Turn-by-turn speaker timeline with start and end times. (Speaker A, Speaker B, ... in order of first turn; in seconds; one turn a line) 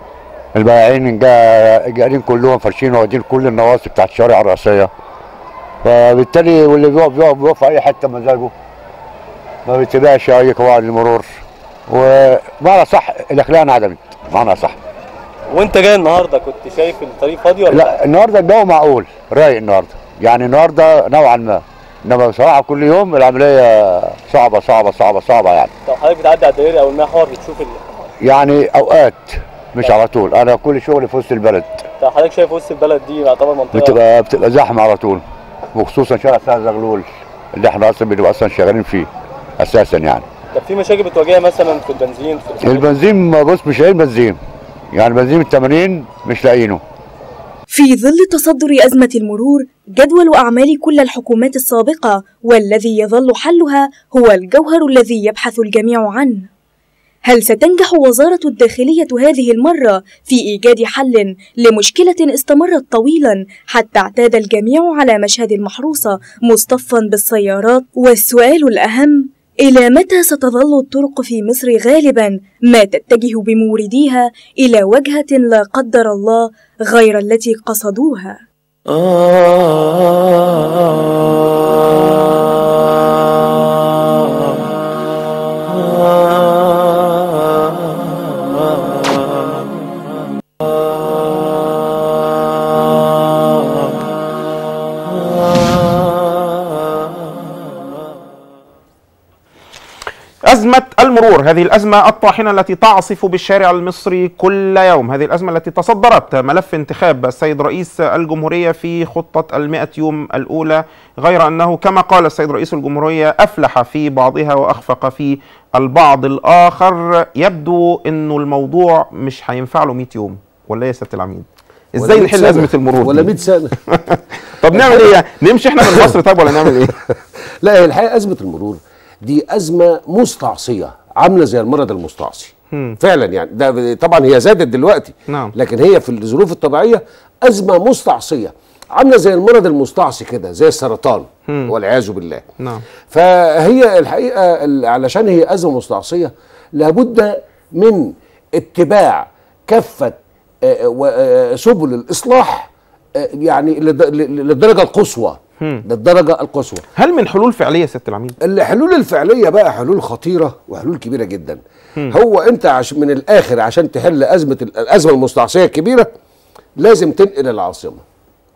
Speaker A: 0.6-4.9
Speaker A: 5.8-8.5
Speaker A: 9.7-11.3
Speaker A: 11.9-14.8
Speaker B: 15.5-17.9
Speaker A: 17.7-25.7
Speaker B: 25.9-27.8
Speaker A: 28.2-31.9
Speaker B: 32.0-34.0
Speaker A: 33.7-40.3
Speaker B: 40.5-42.9
Speaker A: 42.6-44.4
Speaker A: 44.9-46.8
Speaker C: 47.7-56.5
Speaker C: 57.3-78.4
Speaker D: 100.5-123.3
Speaker E: 122.0-123.7
Speaker D: 123.9-127.0
Speaker E: 124.7-125.1
Speaker E: 125.8-142.5
Speaker D: 132.7-133.0
Speaker D: 135.3-135.5
Speaker D: 141.5-141.7
Speaker E: 143.1-156.9
Speaker D: 157.0-158.3
Speaker E: 158.4-166.1
Speaker E: 166.8-168.0